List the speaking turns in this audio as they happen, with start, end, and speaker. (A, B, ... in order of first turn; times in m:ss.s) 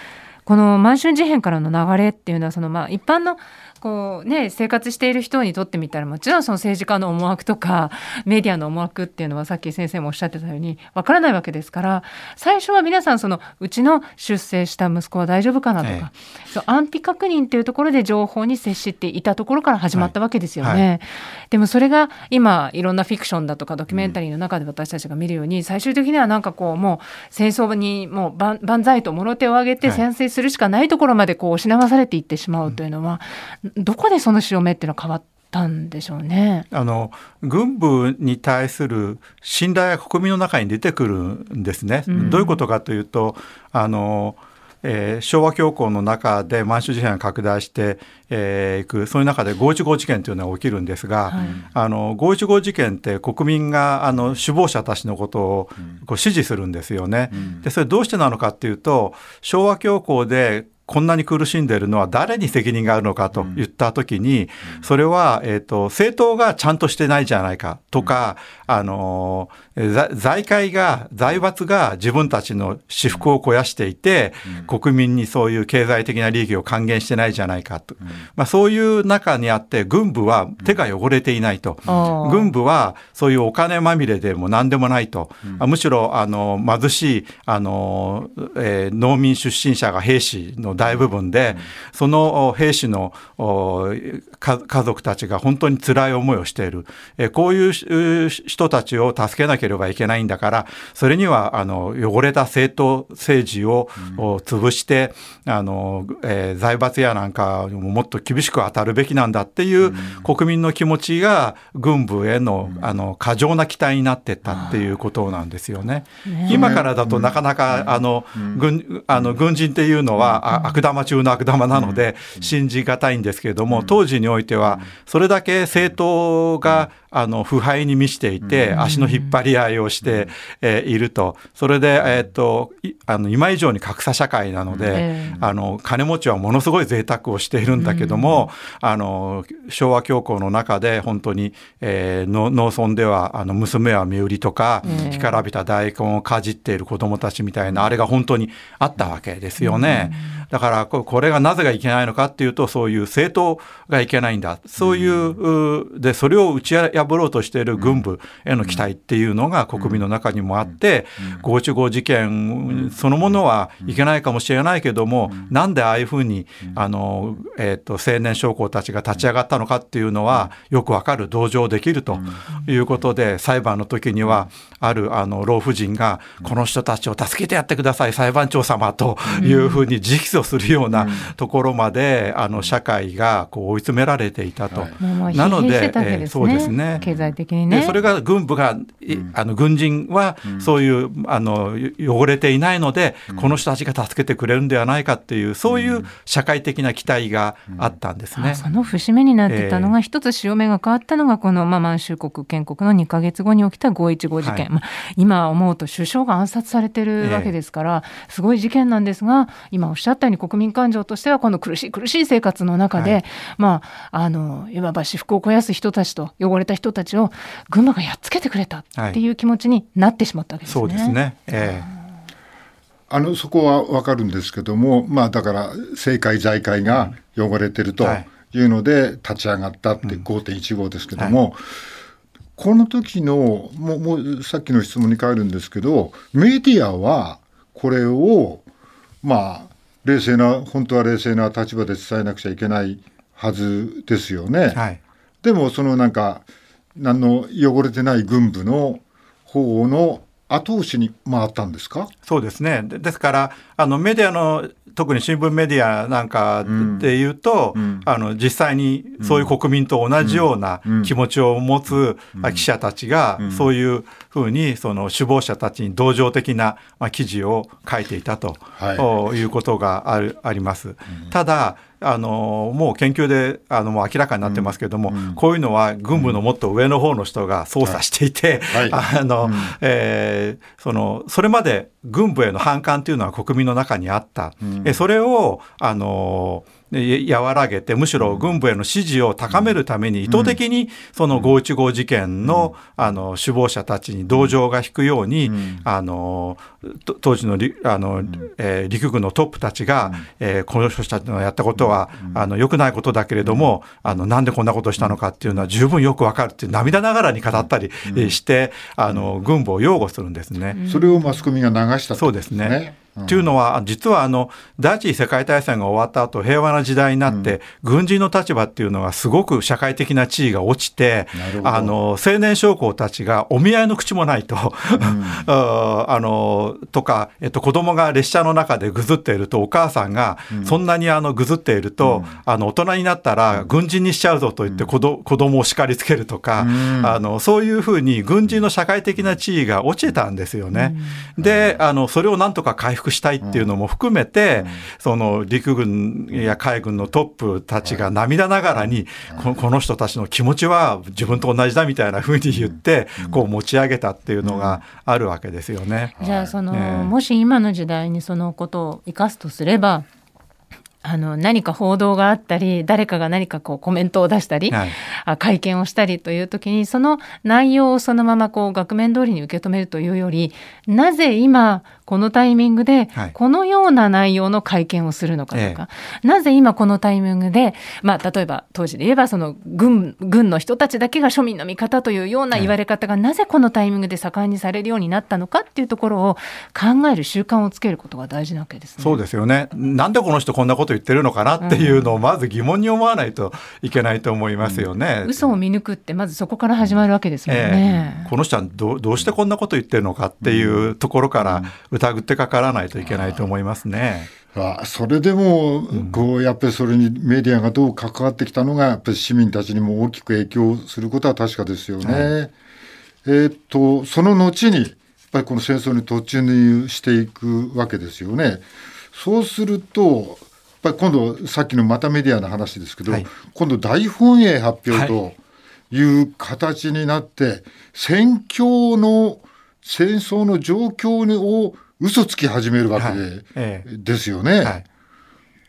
0:00.5-0:36.7 A
0:19.9-0:20.8 B
0:23.9-0:24.2 C
0:36.7-3:07.0 B
0:42.1-0:42.6 A
0:51.3-0:51.6 A
0:51.4-0:51.7 C
0:57.3-0:57.6 C
1:21.9-1:22.5 A
1:30.9-1:31.7 C
1:49.8-1:50.3 C
1:52.6-1:52.9 C
1:54.5-1:54.8 A
1:56.3-1:56.8 A
1:56.5-1:59.4 C
2:00.2-2:00.4 C
2:00.5-2:00.8 A
2:01.7-2:02.5 C
2:03.7-2:04.0 C
2:08.4-2:08.7 C
2:08.7-2:09.4 A
2:10.0-2:10.3 C
2:14.7-2:15.5 C
2:14.9-2:15.4 A
2:17.8-2:18.5 A
2:24.8-2:25.4 A
2:29.6-2:30.4 A
2:34.8-2:35.4 C
2:37.8-2:38.0 C
2:39.8-2:40.0 C
2:52.1-2:52.4 C
2:54.2-2:54.5 C
2:59.4-2:59.8 A
3:00.9-3:01.3 C
3:05.0-3:08.0 A
3:06.7-3:07.3 C
3:07.7-3:18.6 B
3:09.1-3:09.4 C
3:10.4-3:10.7 C
3:13.3-3:13.6 C
3:15.7-3:16.1 C
3:18.3-3:41.9 A
3:19.5-3:19.9 B
3:27.2-3:27.5 B
3:40.7-3:41.9 B
3:43.1-3:51.8 C
3:48.0-3:48.3 B
3:52.6-3:58.6 C
3:59.2-4:04.8 C
4:04.7-4:05.0 B
4:05.4-4:06.4 C
4:07.0-4:12.1 C
4:12.3-5:10.8 B
4:16.6-4:17.1 C
4:17.8-4:18.1 C
4:19.2-4:19.5 C
4:20.2-4:21.1 C
4:22.4-4:22.6 C
4:23.4-4:23.7 C
4:28.8-4:29.1 C
4:34.4-4:35.4 C
4:36.1-4:36.4 C
4:38.7-4:39.8 C
4:44.6-4:45.0 C
4:48.2-4:48.5 C
4:50.3-4:50.6 C
4:52.4-4:53.2 C
4:54.3-4:54.6 C
4:55.5-4:55.8 C
4:58.2-4:58.5 C
5:01.8-5:02.4 C
5:03.4-5:03.7 C
5:07.6-5:08.4 C
5:10.7-5:11.4 A
5:10.8-5:13.5 C
5:12.2-5:56.2 B
5:17.3-5:17.6 C
5:21.4-5:22.0 C
5:25.0-5:25.5 C
5:30.5-5:30.8 C
5:32.0-5:32.4 C
5:36.6-5:37.2 C
5:40.7-5:41.2 A
5:41.4-5:41.8 C
5:43.4-5:43.7 C
5:44.6-5:44.8 C
5:47.8-5:48.1 C
5:49.3-5:49.6 C
5:52.5-5:53.4 C
5:54.4-5:54.8 C
5:56.2-5:56.6 C
5:56.2-6:00.1 A
5:56.7-5:57.1 B
6:01.0-6:29.2 A
6:04.7-6:05.0 B
6:15.5-6:15.8 B
6:29.0-6:35.4 B
6:31.6-6:32.1 A
6:34.6-6:34.9 C
6:35.2-6:38.3 A
6:37.5-6:44.3 B
6:40.4-6:41.7 C
6:43.0-6:43.5 C
6:44.5-6:52.5 C
6:45.9-6:46.2 B
6:52.0-6:52.3 B
6:53.2-7:05.4 C
7:05.9-7:14.8 C
7:13.0-7:13.9 B